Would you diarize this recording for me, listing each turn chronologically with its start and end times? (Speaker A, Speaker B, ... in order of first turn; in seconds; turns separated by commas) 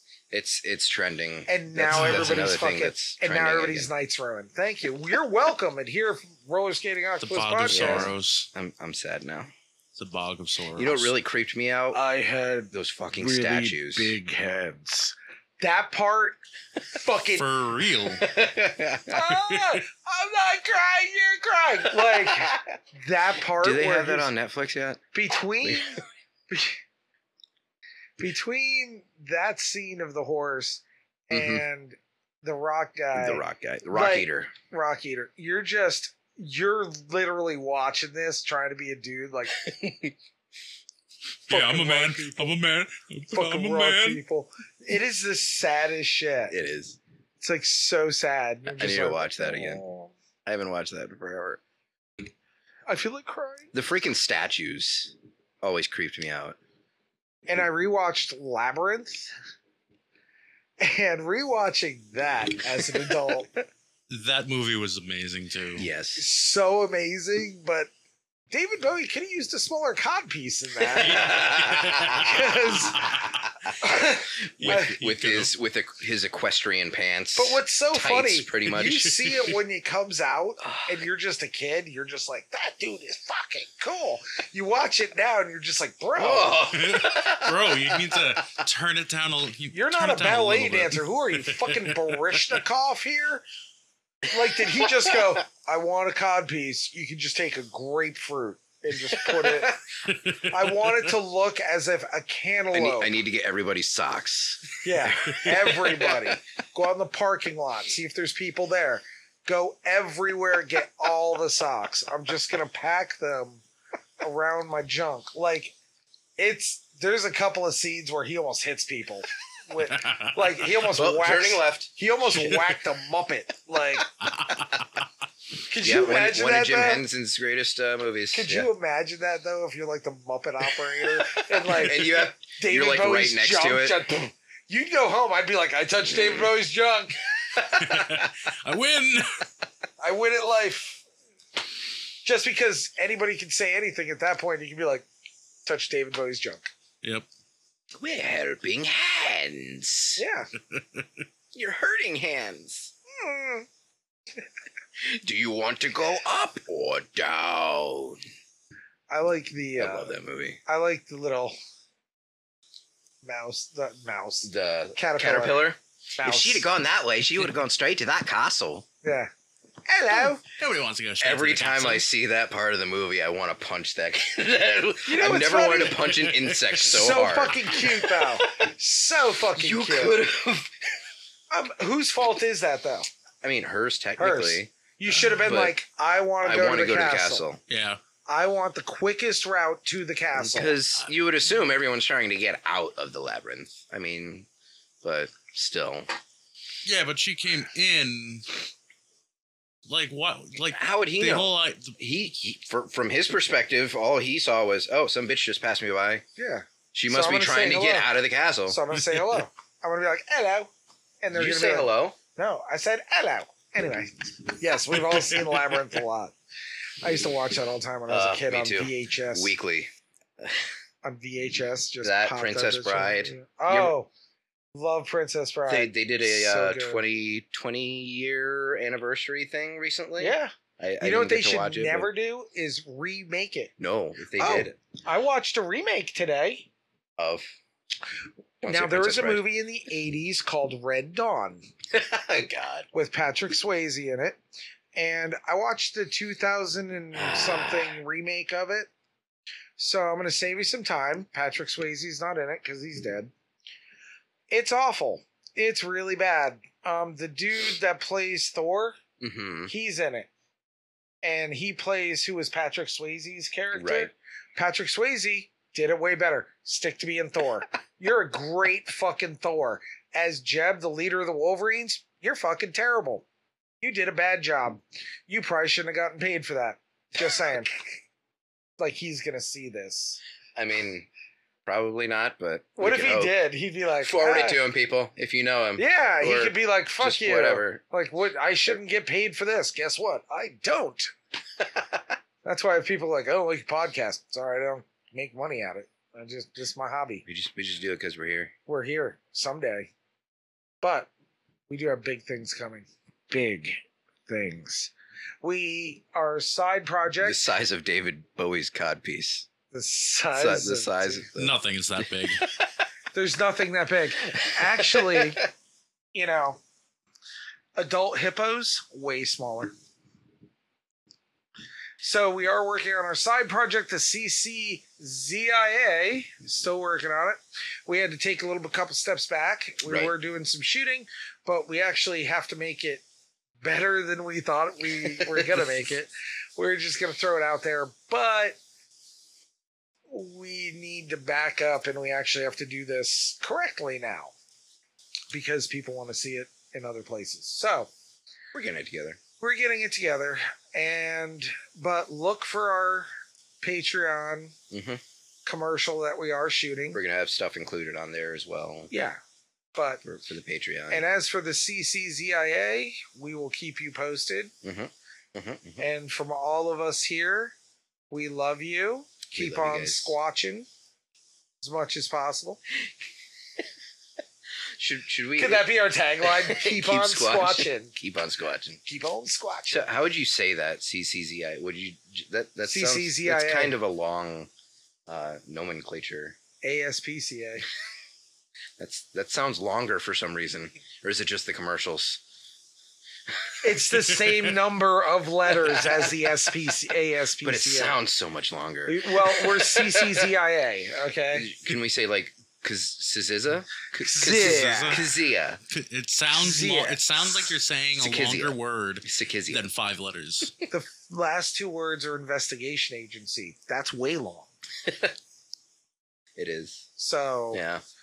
Speaker A: 0.3-3.9, Speaker B: 1.5-8.1, Speaker C: 1.9-2.5, Speaker C: 7.2-8.5, Speaker A: 7.7-9.5, Speaker C: 9.9-11.1, Speaker A: 10.7-12.0, Speaker B: 11.9-17.4, Speaker A: 12.7-14.2, Speaker C: 17.3-18.3, Speaker A: 18.2-19.2, Speaker B: 19.1-24.3, Speaker C: 19.5-19.8, Speaker A: 22.1-22.7, Speaker A: 23.6-25.0, Speaker B: 25.1-26.8, Speaker A: 25.6-25.9, Speaker B: 28.2-39.6, Speaker A: 31.3-31.6, Speaker A: 33.1-34.5, Speaker A: 39.6-40.1, Speaker B: 41.5-42.6, Speaker C: 41.5-44.2, Speaker B: 43.3-46.5, Speaker A: 46.5-47.0, Speaker B: 47.4-50.1, Speaker A: 48.7-49.8, Speaker A: 50.5-51.6, Speaker B: 52.9-53.7, Speaker A: 53.7-56.5, Speaker B: 57.5-59.3, Speaker B: 60.8-63.5, Speaker C: 64.1-65.8, Speaker A: 65.8-66.2, Speaker B: 66.2-67.9, Speaker B: 68.5-71.3, Speaker A: 71.0-72.5, Speaker C: 71.0-73.4, Speaker B: 72.2-73.1, Speaker A: 73.1-73.7, Speaker B: 73.8-75.0, Speaker C: 74.6-75.5, Speaker A: 74.6-79.1, Speaker B: 77.3-86.6, Speaker C: 78.8-79.4, Speaker A: 80.6-80.9, Speaker A: 86.2-88.6, Speaker C: 86.7-92.6, Speaker B: 89.7-93.4, Speaker B: 94.3-99.8, Speaker A: 99.4-99.7, Speaker C: 100.1-100.4, Speaker B: 100.4-103.1, Speaker A: 102.7-106.4, Speaker B: 104.8-113.6, Speaker B: 114.2-115.7, Speaker B: 116.4-124.1, Speaker A: 120.9-121.9, Speaker C: 124.4-124.6, Speaker B: 125.6-127.0, Speaker A: 125.8-128.7, Speaker B: 128.3-137.2, Speaker A: 131.0-134.1, Speaker A: 136.1-136.5, Speaker C: 137.7-139.4, Speaker B: 140.0-141.0, Speaker B: 142.2-145.1, Speaker B: 145.6-146.7, Speaker A: 147.9-150.2, Speaker B: 150.2-150.5, Speaker C: 150.7-151.0, Speaker A: 151.5-152.9, Speaker B: 153.1-153.7, Speaker A: 155.0-158.2, Speaker B: 159.1-161.6, Speaker A: 159.8-160.6, Speaker B: 163.2-166.7, Speaker A: 164.4-168.8, Speaker B: 169.0-169.3, Speaker B: 169.9-170.4, Speaker C: 170.4-172.0, Speaker A: 171.2-178.5, Speaker B: 175.0-176.0, Speaker C: 176.0-176.7, Speaker B: 176.8-180.2, Speaker A: 179.6-180.7, Speaker B: 181.5-183.1, Speaker A: 183.4-184.7, Speaker B: 184.2-187.4, Speaker A: 185.3-185.8, Speaker A: 186.4-187.6, Speaker C: 187.7-188.0, Speaker B: 188.3-190.8, Speaker A: 190.3-194.5, Speaker A: 195.0-196.1, Speaker C: 196.8-198.5, Speaker C: 199.9-201.9, Speaker A: 200.7-206.2, Speaker B: 206.4-208.1, Speaker A: 206.9-208.8, Speaker B: 208.7-210.7, Speaker B: 211.2-216.3, Speaker A: 211.3-212.2, Speaker B: 217.0-219.5, Speaker A: 218.1-220.6, Speaker B: 221.0-224.1, Speaker A: 222.0-223.9, Speaker B: 224.7-227.0, Speaker A: 225.7-232.1, Speaker B: 230.2-233.7, Speaker A: 233.8-234.8, Speaker B: 234.3-236.7, Speaker A: 237.2-237.5, Speaker A: 238.6-239.4, Speaker B: 238.7-241.6, Speaker A: 241.9-242.9, Speaker B: 242.9-244.4, Speaker B: 244.9-248.9, Speaker A: 247.1-247.9, Speaker B: 249.8-253.3, Speaker B: 254.5-259.0, Speaker A: 259.2-259.7, Speaker B: 259.7-260.3, Speaker B: 261.2-273.2, Speaker A: 263.7-264.1, Speaker B: 273.8-278.0, Speaker B: 278.8-280.2, Speaker A: 280.6-281.1, Speaker A: 281.6-283.3, Speaker B: 282.8-284.6, Speaker A: 284.0-287.8, Speaker B: 285.8-291.1, Speaker B: 292.4-297.2, Speaker A: 297.2-298.5, Speaker B: 298.7-299.9, Speaker B: 300.8-301.1, Speaker B: 301.7-307.4, Speaker A: 307.2-309.5, Speaker B: 309.7-311.3, Speaker A: 310.3-312.0, Speaker C: 311.4-312.4, Speaker B: 313.1-315.4, Speaker A: 314.8-315.2, Speaker B: 316.1-316.6, Speaker B: 317.8-319.7, Speaker B: 322.0-333.0, Speaker A: 329.9-330.1, Speaker B: 333.6-338.6, Speaker A: 335.2-335.6, Speaker B: 340.1-344.3, Speaker B: 345.3-347.9, Speaker A: 348.5-349.2, Speaker B: 349.4-353.1, Speaker B: 353.6-354.5, Speaker A: 354.7-355.0, Speaker B: 355.4-357.0, Speaker A: 356.9-358.9, Speaker B: 358.9-359.2, Speaker B: 359.7-360.0, Speaker A: 360.0-361.0, Speaker B: 360.9-364.5, Speaker A: 364.6-365.8, Speaker B: 365.8-367.5, Speaker B: 368.1-370.7, Speaker A: 369.3-370.2, Speaker B: 371.6-372.6, Speaker A: 374.8-375.7, Speaker B: 375.4-377.9, Speaker A: 376.2-378.8, Speaker B: 378.8-379.9, Speaker A: 379.7-384.5, Speaker B: 382.7-383.8, Speaker A: 385.1-386.4, Speaker B: 386.6-387.7, Speaker A: 388.8-392.2, Speaker B: 393.6-398.0, Speaker A: 397.4-400.3, Speaker B: 398.9-401.5, Speaker A: 401.3-405.6, Speaker B: 404.0-405.0, Speaker C: 404.2-405.1, Speaker C: 405.7-410.6, Speaker B: 406.3-407.5, Speaker A: 408.0-409.6, Speaker B: 410.7-414.5, Speaker A: 414.9-415.1, Speaker A: 416.4-416.9, Speaker B: 417.0-417.6, Speaker A: 417.5-417.8